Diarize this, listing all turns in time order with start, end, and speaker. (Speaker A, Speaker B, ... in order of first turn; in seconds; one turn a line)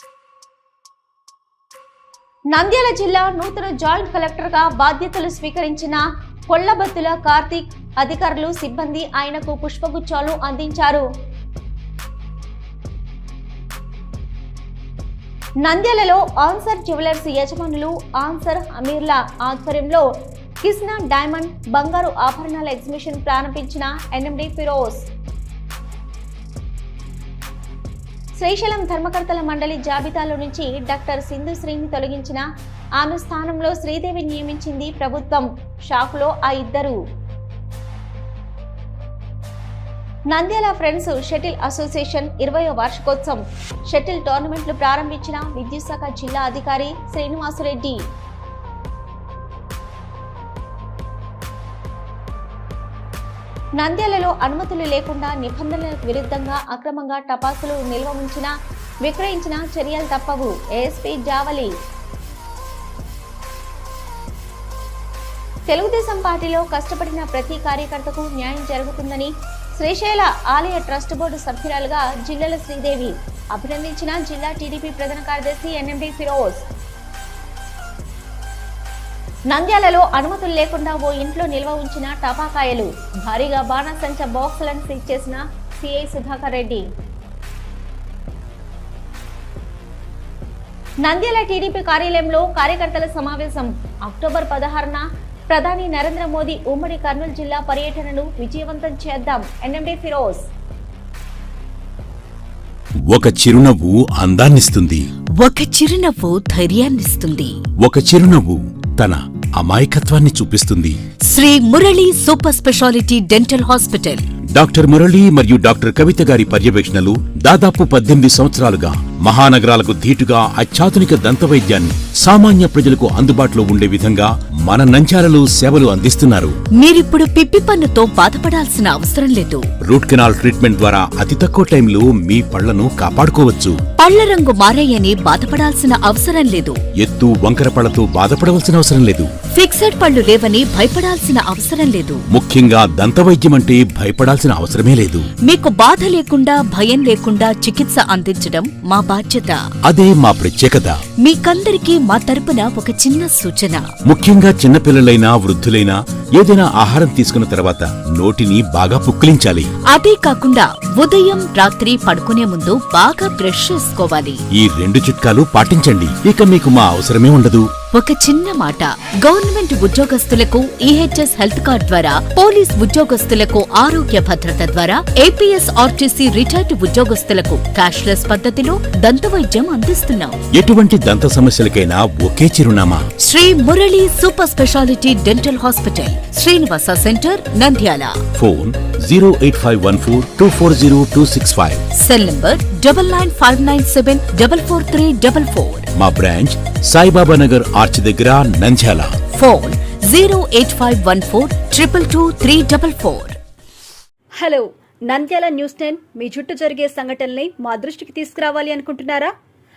Speaker A: 2.5-11.1
Speaker A: 15.6-20.1
Speaker A: 20.6-25.0
Speaker A: 28.4-32.4
Speaker A: 33.0-37.0
Speaker A: 40.3-48.0
Speaker A: 53.8-58.5
Speaker A: 59.0-61.7
Speaker A: 65.7-76.6
Speaker A: 79.5-86.8
Speaker A: 91.0-100.4
Speaker B: 103.1-105.0
Speaker C: 105.4-107.6
Speaker B: 107.8-111.0
Speaker C: 111.3-114.2
Speaker B: 114.5-126.5
Speaker C: 126.8-129.6
Speaker B: 129.9-133.8
Speaker C: 134.0-136.8
Speaker B: 137.0-139.3
Speaker C: 139.6-142.2
Speaker B: 142.3-145.3
Speaker C: 145.5-149.6
Speaker B: 149.9-151.0
Speaker C: 151.2-153.9
Speaker B: 154.1-159.7
Speaker C: 159.9-164.4
Speaker B: 164.6-167.7
Speaker C: 167.9-180.4
Speaker B: 180.6-183.0
Speaker C: 183.2-188.1
Speaker B: 188.4-191.8
Speaker C: 192.0-195.9
Speaker B: 195.9-199.1
Speaker C: 199.4-203.4
Speaker D: 204.4-209.3